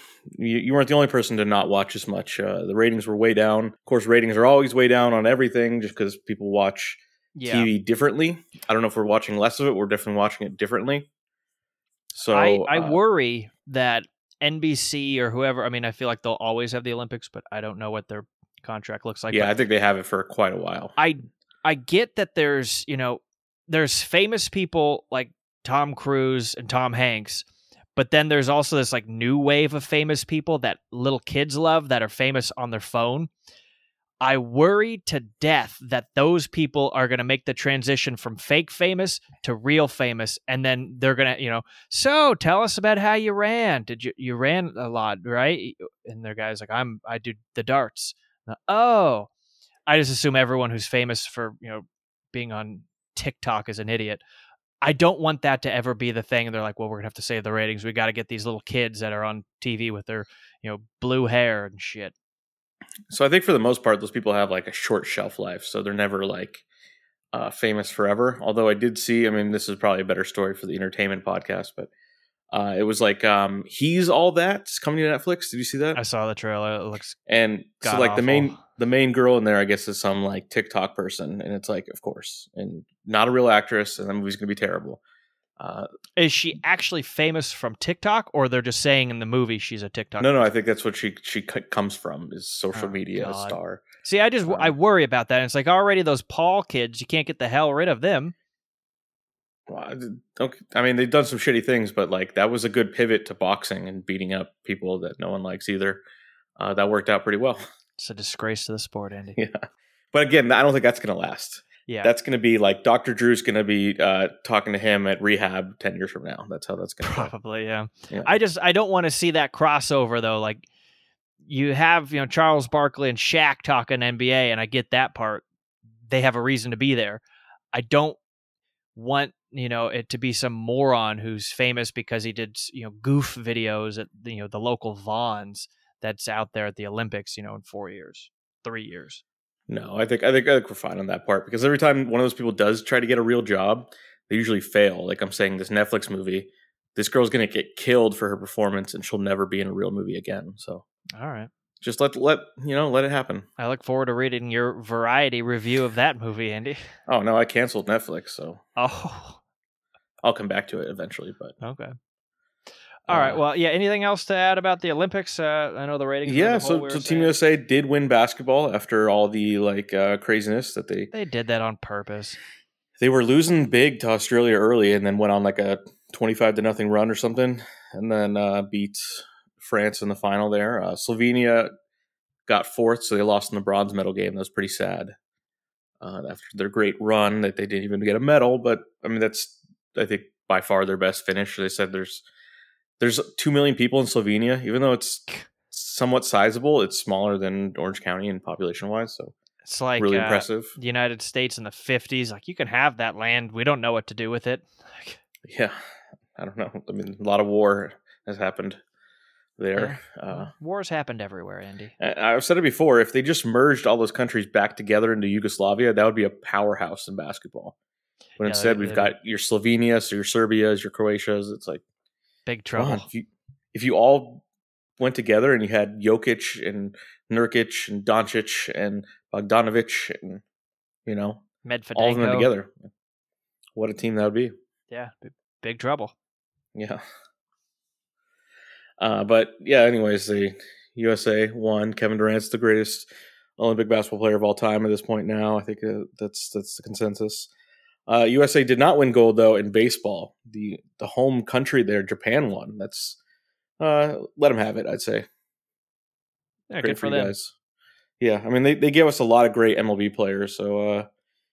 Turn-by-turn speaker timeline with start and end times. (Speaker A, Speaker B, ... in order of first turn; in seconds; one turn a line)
Speaker A: 0.3-11.1
Speaker B: 7.3-7.7
Speaker A: 12.1-13.0
Speaker B: 12.3-19.5
Speaker A: 19.3-20.9
Speaker B: 21.0-27.4
Speaker B: 27.9-33.3
Speaker B: 34.2-49.3
Speaker B: 49.9-54.2
Speaker B: 54.8-62.1
Speaker A: 63.1-66.6
Speaker A: 67.3-71.9
Speaker A: 72.5-76.0
Speaker B: 75.9-77.2
Speaker A: 77.3-85.0
Speaker B: 77.8-78.6
Speaker A: 85.6-85.9
Speaker B: 86.2-90.5
Speaker A: 90.2-93.8
Speaker B: 92.7-98.3
Speaker A: 94.5-94.7
Speaker A: 99.7-106.0
Speaker A: 106.6-107.6
Speaker B: 108.0-109.4
Speaker A: 109.3-117.3
Speaker B: 111.9-112.1
Speaker B: 117.0-120.7
Speaker B: 121.5-125.4
Speaker B: 126.1-127.2
Speaker B: 127.7-128.2
Speaker B: 128.9-139.2
Speaker A: 139.7-150.8
Speaker B: 151.2-151.5
Speaker A: 151.8-153.5
Speaker B: 153.6-156.8
Speaker A: 157.1-158.6
Speaker B: 158.8-159.4
Speaker A: 160.2-161.5
Speaker B: 161.6-161.9
Speaker A: 163.1-163.4
Speaker B: 163.1-167.3
Speaker A: 166.2-171.1
Speaker B: 171.1-172.4
Speaker A: 173.0-181.7
Speaker A: 182.5-185.1
Speaker A: 186.0-192.2
Speaker A: 193.0-199.3
Speaker B: 199.6-205.2
Speaker A: 200.0-200.7
Speaker A: 205.5-205.8
Speaker A: 206.3-208.8
Speaker A: 209.6-210.5
Speaker B: 209.7-211.9
Speaker A: 212.0-217.7
Speaker A: 218.4-221.8
Speaker B: 218.4-219.1
Speaker B: 222.5-223.1
Speaker A: 222.8-224.4
Speaker A: 225.0-230.4
Speaker A: 231.1-231.4
Speaker B: 231.6-232.5
Speaker A: 231.9-232.7
Speaker A: 233.8-234.5
Speaker B: 234.9-236.1
Speaker A: 236.7-237.0
Speaker A: 239.0-247.5
Speaker A: 248.1-253.2
Speaker A: 253.8-255.3
Speaker B: 256.7-257.3
Speaker A: 256.8-257.5
Speaker A: 258.2-261.1